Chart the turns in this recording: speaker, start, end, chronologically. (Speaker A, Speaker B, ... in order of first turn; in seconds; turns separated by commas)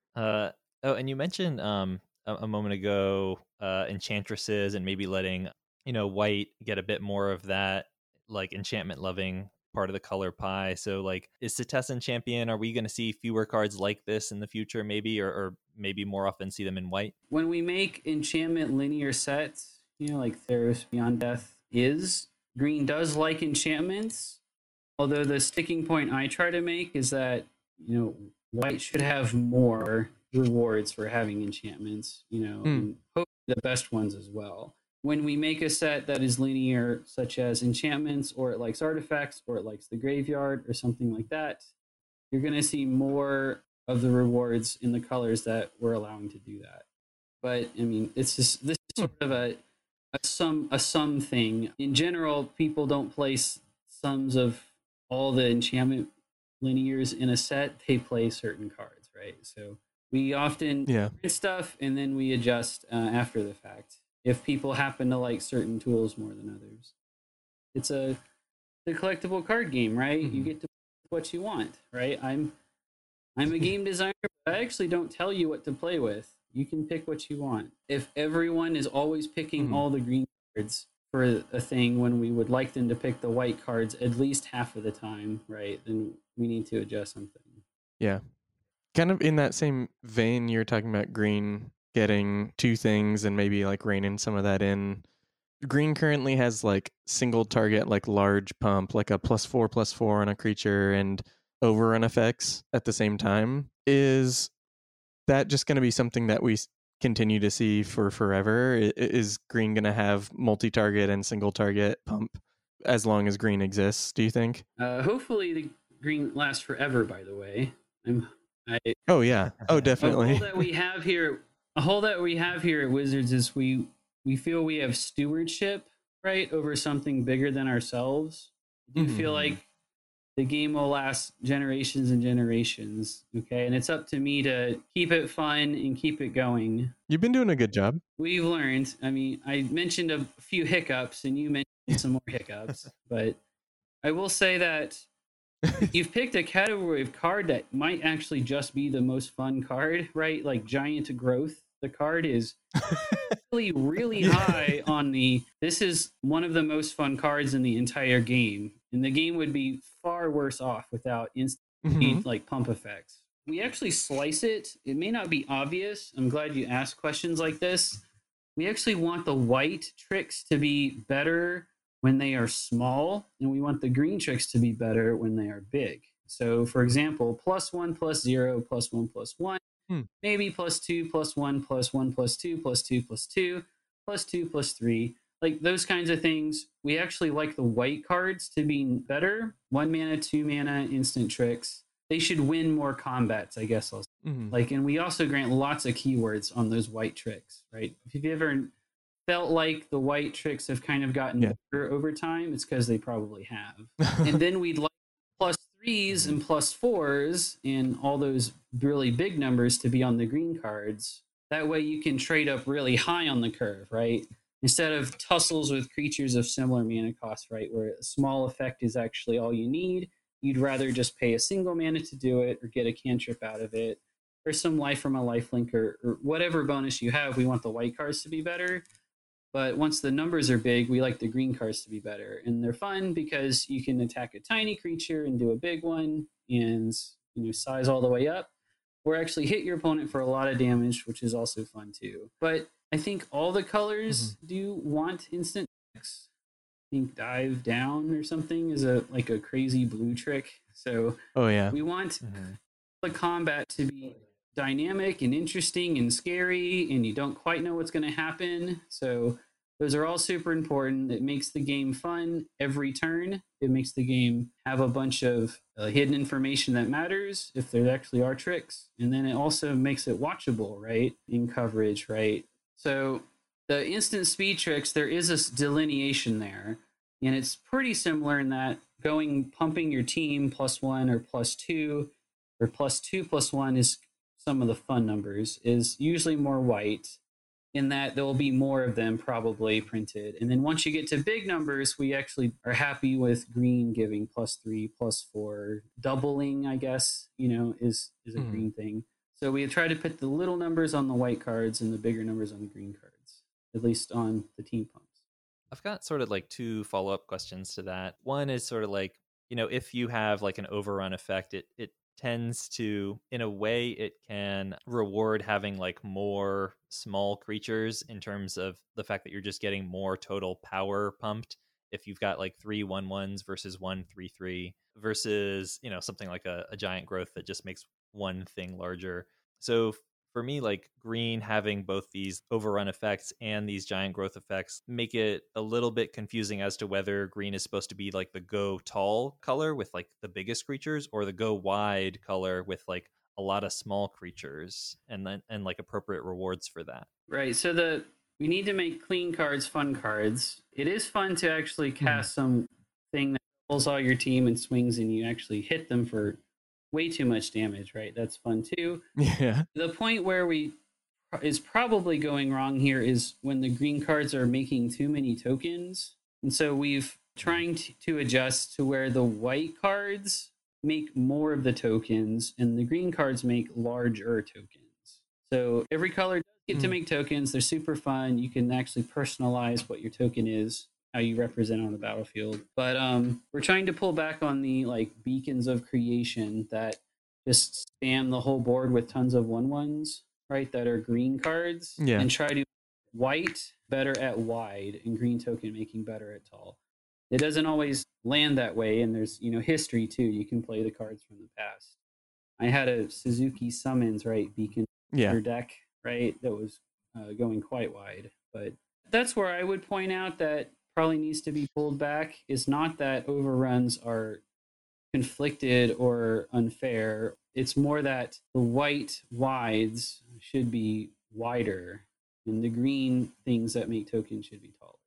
Speaker A: 0.1-17.1, Speaker B: 17.3-24.4, Speaker B: 25.0-41.6, Speaker B: 42.3-46.8, Speaker B: 47.4-49.6, Speaker B: 50.1-66.9, Speaker C: 60.9-61.1, Speaker B: 67.7-68.2, Speaker B: 68.8-72.5, Speaker C: 70.2-70.5, Speaker B: 73.4-87.6, Speaker C: 79.6-79.8, Speaker C: 88.9-95.0, Speaker C: 95.6-104.5, Speaker C: 105.3-114.6, Speaker B: 114.8-119.0, Speaker C: 119.1-120.6, Speaker B: 120.0-129.7, Speaker C: 129.0-129.5, Speaker B: 130.3-136.9, Speaker C: 137.1-138.0, Speaker B: 138.2-143.4, Speaker B: 144.0-145.1, Speaker B: 145.8-152.6, Speaker B: 153.3-168.0, Speaker C: 154.2-154.7, Speaker C: 161.8-162.2, Speaker B: 168.6-179.6, Speaker B: 180.2-198.7, Speaker C: 194.2-194.5, Speaker B: 199.3-228.8, Speaker B: 229.5-238.5, Speaker B: 239.0-246.3, Speaker C: 244.1-244.3, Speaker B: 246.9-251.2, Speaker C: 251.3-251.7, Speaker B: 251.7-252.4, Speaker A: 252.2-252.6, Speaker B: 253.0-287.2, Speaker B: 287.7-305.1, Speaker C: 298.4-298.6, Speaker A: 305.7-347.1, Speaker B: 347.3-356.4, Speaker B: 356.9-359.0, Speaker C: 359.2-359.6, Speaker B: 359.7-360.7, Speaker B: 361.3-396.8, Speaker C: 392.0-392.3, Speaker B: 397.3-401.9, Speaker B: 402.6-414.4, Speaker C: 405.1-405.4, Speaker B: 415.1-425.0